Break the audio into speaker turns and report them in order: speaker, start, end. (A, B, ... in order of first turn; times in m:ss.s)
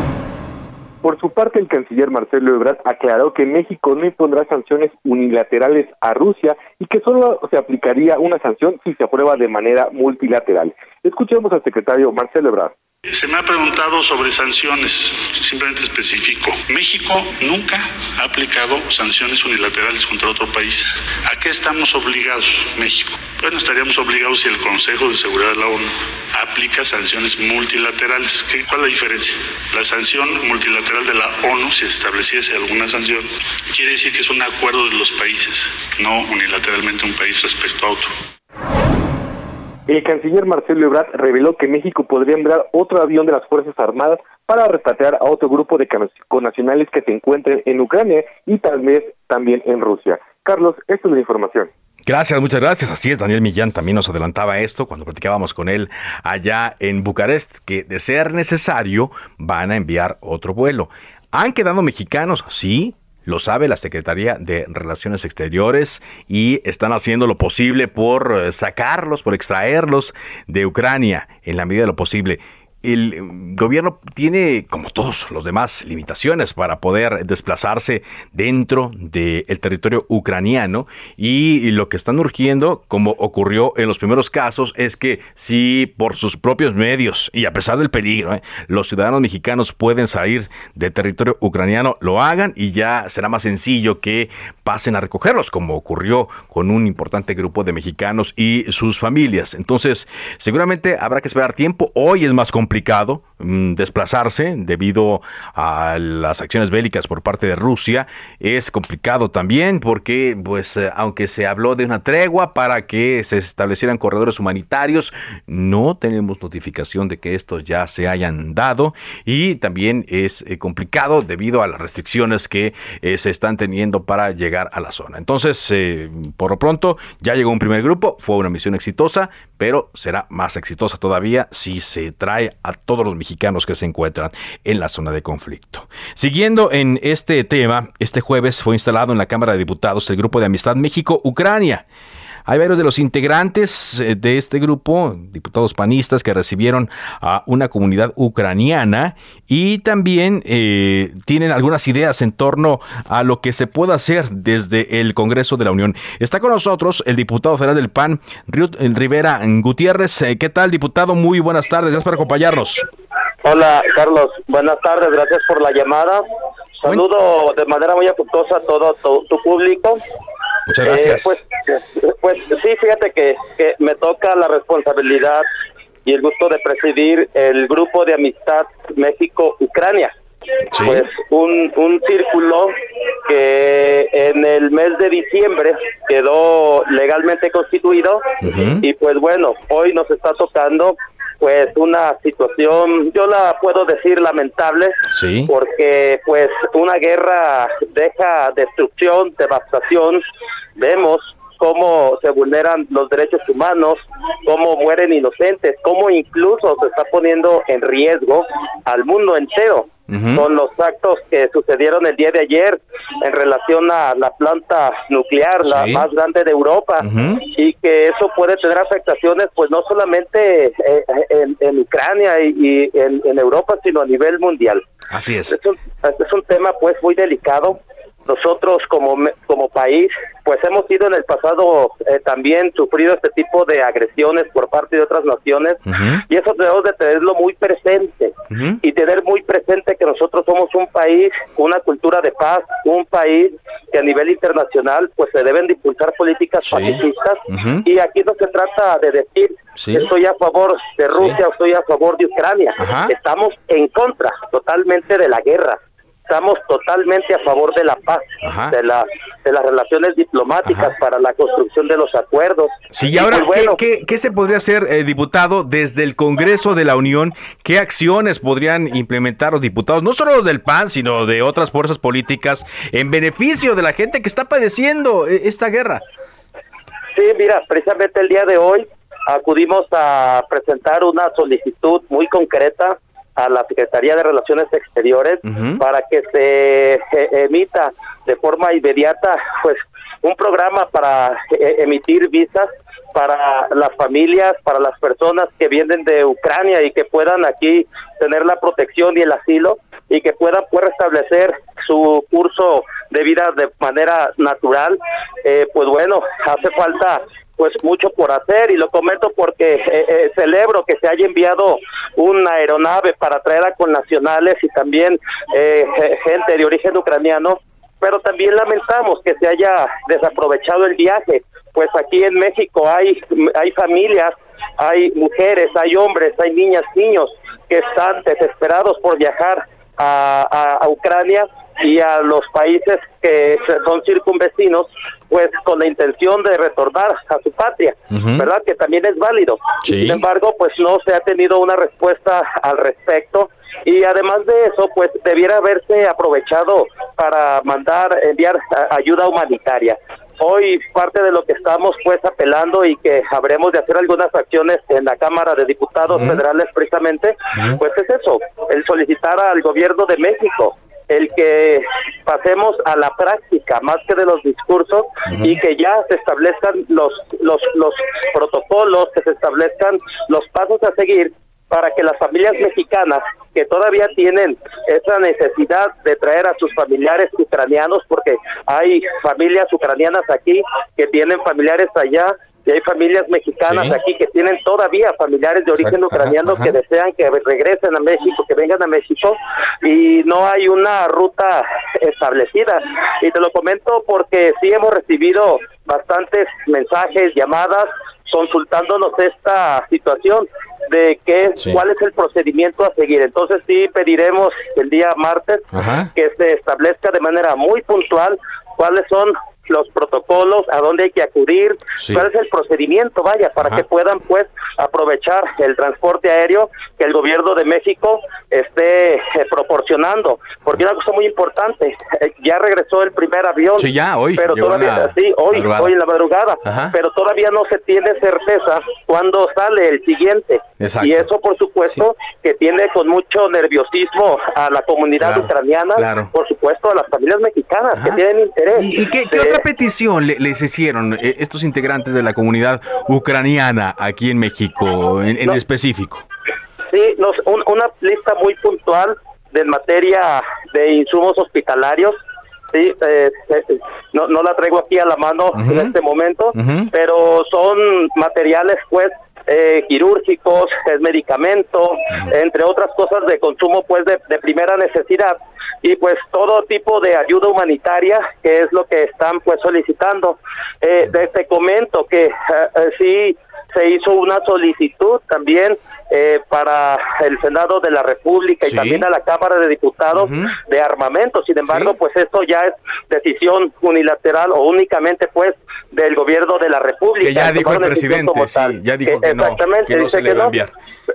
0:01.0-0:12.7 A
0:13.1-0:38.1 B
0:39.9-0:51.7 A
0:52.1-2:21.8 C
2:22.5-2:42.8 C
2:43.4-2:46.2 D
2:46.8-2:50.0 D
2:50.7-2:51.4 C
2:50.8-2:51.4 D
2:51.9-2:55.4 D
2:56.0-3:00.1 D
3:00.7-3:01.1 C
3:00.8-3:02.7 D
3:03.2-3:08.2 D
3:08.4-3:08.8 C
3:08.8-3:15.0 D
3:15.1-3:15.5 C
3:15.5-3:20.2 D
3:20.8-3:44.8 D
3:30.1-3:30.4 C
3:35.6-3:36.0 C
3:37.0-3:37.4 C
3:45.1-3:45.6 C
3:45.5-4:23.8 D
3:55.9-3:56.2 C
3:58.5-3:58.8 C
4:06.7-4:07.8 C
4:09.8-4:10.1 C
4:11.1-4:11.4 C
4:12.8-4:13.1 C
4:18.4-4:18.7 C
4:20.6-4:20.9 C
4:22.9-4:36.0 C
4:37.2-6:45.6 D
4:45.4-4:45.8 C
5:38.1-5:38.5 C
5:39.8-5:40.2 C
5:56.1-5:56.4 C
5:57.6-5:57.8 C
6:05.3-6:05.6 C
6:23.7-6:24.0 C
6:25.8-6:26.7 C
6:45.7-6:46.1 C
6:46.2-7:19.6 D
6:52.0-6:52.2 C
7:03.8-7:05.9 C
7:06.6-7:06.9 C
7:10.8-7:11.3 C
7:15.2-7:16.3 C
7:17.9-7:18.2 C
7:18.8-7:26.2 C
7:26.9-7:32.2 D
7:32.7-8:10.5 D
7:35.5-7:35.9 C
7:36.6-7:36.9 C
7:58.6-7:59.0 C
8:00.2-8:00.5 C
8:01.7-8:01.9 C
8:07.2-8:10.7 C